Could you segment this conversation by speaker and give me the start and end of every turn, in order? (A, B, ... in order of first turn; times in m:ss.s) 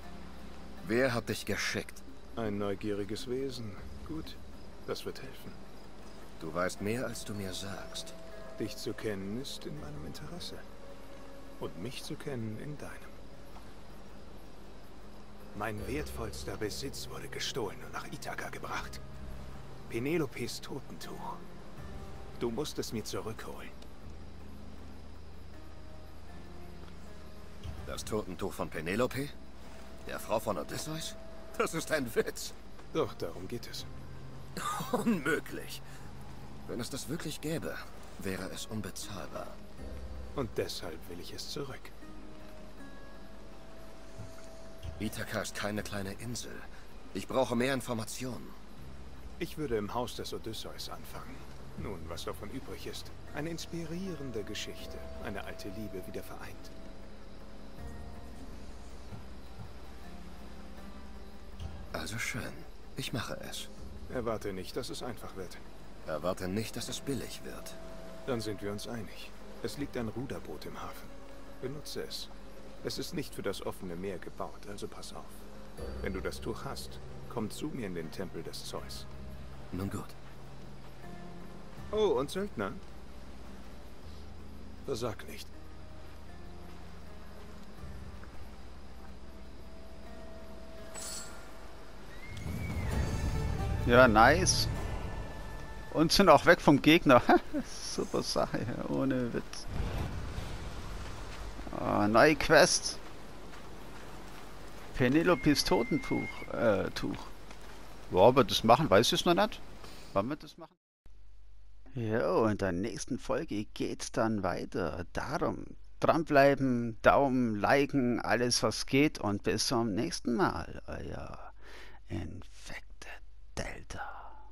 0:00.8-0:02.0 A
0:02.4-0:05.6 B
0:06.4-0:08.2 A
0:08.6-0:10.6 B
0:11.6-0:13.2 B
0:15.5-0:19.0 B
0:19.9-0:21.4 B
0:22.4-0:23.7 B
0:27.8-0:29.3 A
0:30.0-0:32.6 A
0:32.9-0:33.9 B
0:34.6-0:35.8 A
0:36.6-0:39.6 A
0:40.3-0:41.9 B
0:45.0-0:48.6 A
0:49.4-0:56.7 B
1:01.9-1:03.7 A
1:04.1-1:05.6 B
1:06.0-1:07.8 A
1:08.2-1:12.3 B
1:12.8-1:15.4 B
1:16.0-1:19.1 B
1:19.7-1:20.2 A
1:21.9-1:22.8 B
1:24.8-1:25.5 B
1:33.8-1:34.7 C
1:35.9-1:39.6 C
1:41.7-1:43.0 C
1:44.9-1:47.3 C
1:48.1-1:49.6 C
1:50.1-1:50.7 C
1:51.9-2:01.5 C
2:02.1-2:04.3 C